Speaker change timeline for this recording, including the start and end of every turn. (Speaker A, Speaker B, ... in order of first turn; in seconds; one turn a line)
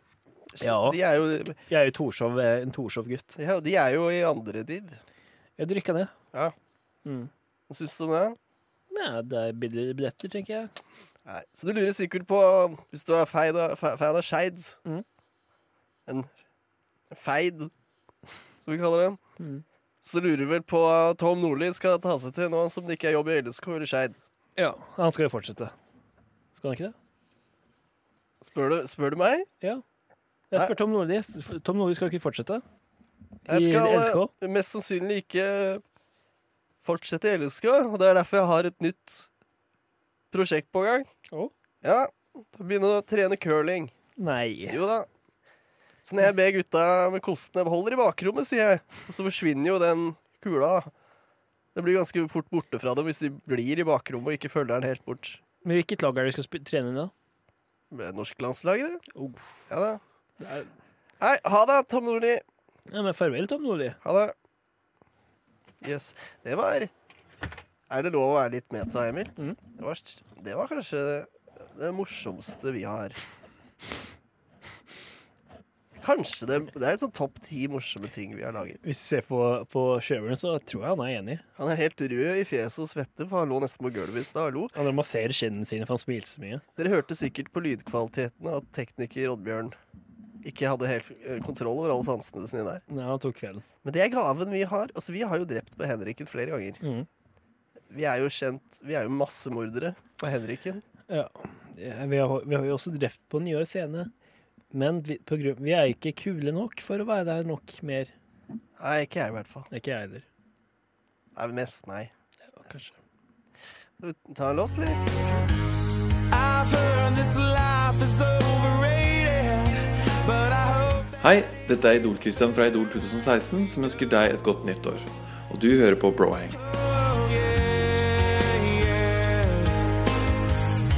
Speaker A: 0.5-1.6
Speaker B: 0.6-1.0
Speaker B: 1.7-3.4
Speaker A: 3.4-5.0
Speaker B: 5.6-6.1
Speaker B: 7.0-7.3
Speaker A: 7.7-8.4
Speaker B: 8.9-10.7
Speaker A: 11.2-14.8
Speaker A: 17.1-17.7
Speaker A: 18.6-19.2
Speaker B: 19.4-19.6
Speaker A: 20.0-24.2
Speaker B: 24.6-25.7
Speaker B: 26.5-26.9
Speaker A: 28.4-29.5
Speaker B: 30.5-32.6
Speaker B: 33.4-34.3
Speaker A: 33.5-35.8
Speaker A: 36.8-39.3
Speaker A: 40.3-41.1
Speaker A: 41.8-43.9
Speaker B: 44.2-44.8
Speaker A: 44.7-45.1
Speaker A: 46.0-50.9
Speaker A: 51.7-55.4
Speaker B: 55.6-57.1
Speaker A: 57.9-59.0
Speaker B: 59.1-59.5
Speaker A: 59.7-60.0
Speaker B: 60.4-60.7
Speaker A: 61.2-62.4
Speaker B: 62.9-64.0
Speaker A: 64.0-64.3
Speaker A: 65.8-66.9
Speaker A: 67.9-73.2
Speaker A: 76.0-78.8
Speaker B: 78.8-81.4
Speaker A: 81.5-84.7
Speaker B: 84.7-86.6
Speaker A: 86.8-89.7
Speaker A: 90.4-92.8
Speaker B: 92.9-93.6
Speaker A: 93.8-96.8
Speaker B: 96.8-97.1
Speaker A: 97.9-100.8
Speaker B: 101.1-104.1
Speaker B: 104.7-108.1
Speaker A: 108.8-109.7
Speaker B: 109.7-110.2
Speaker A: 111.3-112.1
Speaker B: 112.6-112.9
Speaker A: 114.0-115.5
Speaker C: 116.3-121.2
Speaker D: 121.2-126.6
Speaker C: 126.6-129.9